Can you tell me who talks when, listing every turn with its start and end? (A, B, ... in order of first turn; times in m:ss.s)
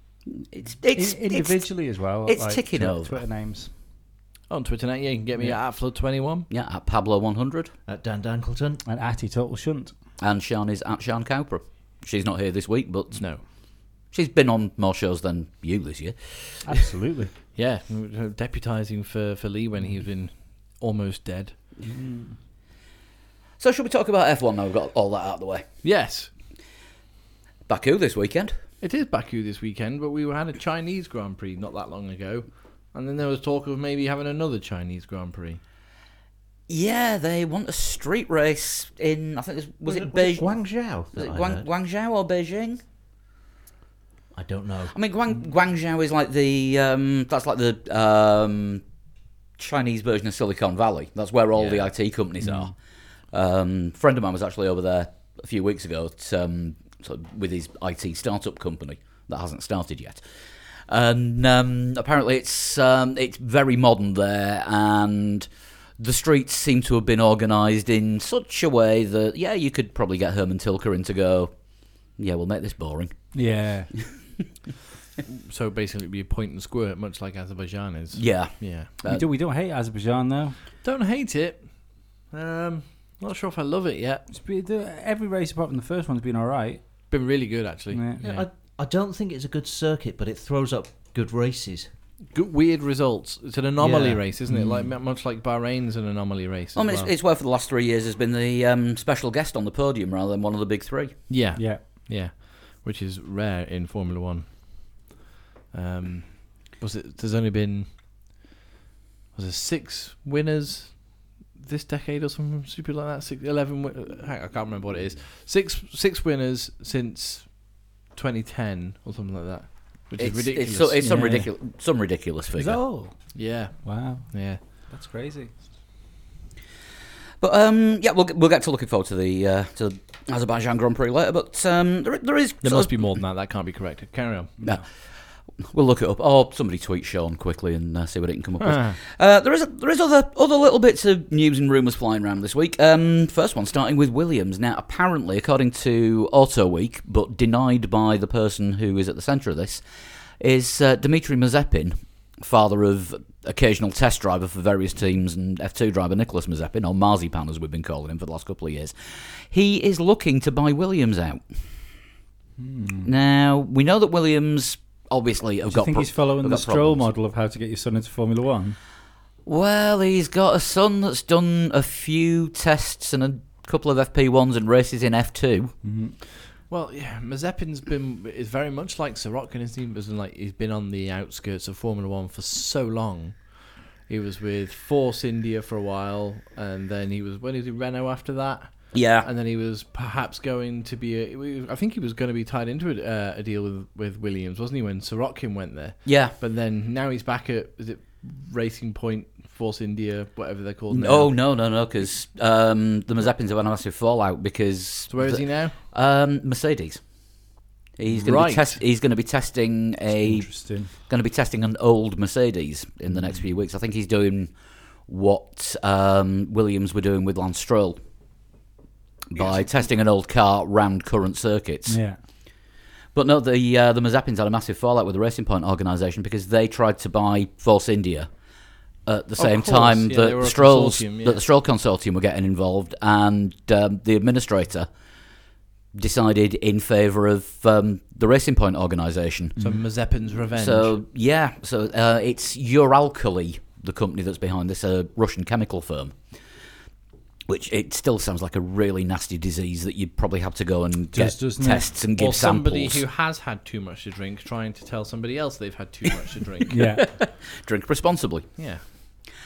0:00.3-0:03.2 A
0:00.9-0:03.7 B
0:04.5-0:06.5 C
0:06.5-0:07.7 A
0:07.9-0:08.8 D
0:08.8-0:09.9 B
0:10.2-0:16.7 A
0:13.2-0:13.4 C
0:16.6-0:17.3 B
0:17.5-0:21.5 C
0:21.8-0:22.4 B
0:23.6-0:25.6 A
0:25.8-0:26.3 C
0:27.7-0:28.6 A
0:28.8-0:35.6 C
0:36.7-0:40.5 A
0:39.8-0:41.6 D
0:41.1-0:42.8 A
0:44.3-0:44.9 D
0:44.9-0:48.8 A
0:49.6-0:52.8 A
0:51.5-0:51.9 D
0:52.4-0:52.7 B
0:53.3-1:00.2 A
1:00.9-1:11.6 A
1:12.1-1:13.2 A
1:13.3-1:13.9 B
1:15.2-1:18.9 C
1:18.2-1:19.2 A
1:19.0-1:20.6 B
1:20.8-1:24.3 C
1:24.3-1:26.9 B
1:27.1-1:28.5 C
1:27.9-1:28.2 B
1:28.2-1:31.9 D
1:32.3-1:37.1 C
1:33.8-1:34.9 B
1:36.7-1:41.3 A
1:41.3-1:45.1 C
1:41.6-1:41.8 B
1:45.7-1:48.4 C
1:49.3-2:01.0 C
2:00.2-2:02.8 A
2:01.0-2:01.5 B
2:02.6-2:05.6 B
2:03.3-2:04.6 C
2:07.4-2:13.0 A
2:12.6-2:14.7 C
2:14.6-2:14.9 A
2:15.6-2:29.8 A
2:18.6-2:19.0 C
2:30.4-2:41.4 A
2:42.6-2:43.1 B
2:43.0-2:47.1 A
2:45.6-2:48.8 B
2:49.4-2:55.7 A
2:55.8-2:56.2 B
2:56.6-3:21.4 C
3:08.9-3:09.3 A
3:16.0-3:16.3 A
3:20.9-3:27.0 A
3:25.1-3:25.8 C
3:28.0-3:34.5 A
3:28.1-3:28.8 C
3:30.1-3:30.9 B
3:35.1-3:38.0 A
3:39.3-3:42.0 A
3:41.8-3:42.2 B
3:43.1-3:48.3 A
3:49.0-3:54.9 A
3:49.4-3:51.4 C
3:55.9-3:59.6 A
3:59.6-3:59.8 B
3:59.6-4:01.0 C
4:00.6-4:06.2 A
4:07.5-4:13.0 A
4:11.1-4:11.9 B
4:12.1-4:16.8 C
4:16.7-4:17.0 B
4:16.7-4:18.6 A
4:18.6-4:18.8 C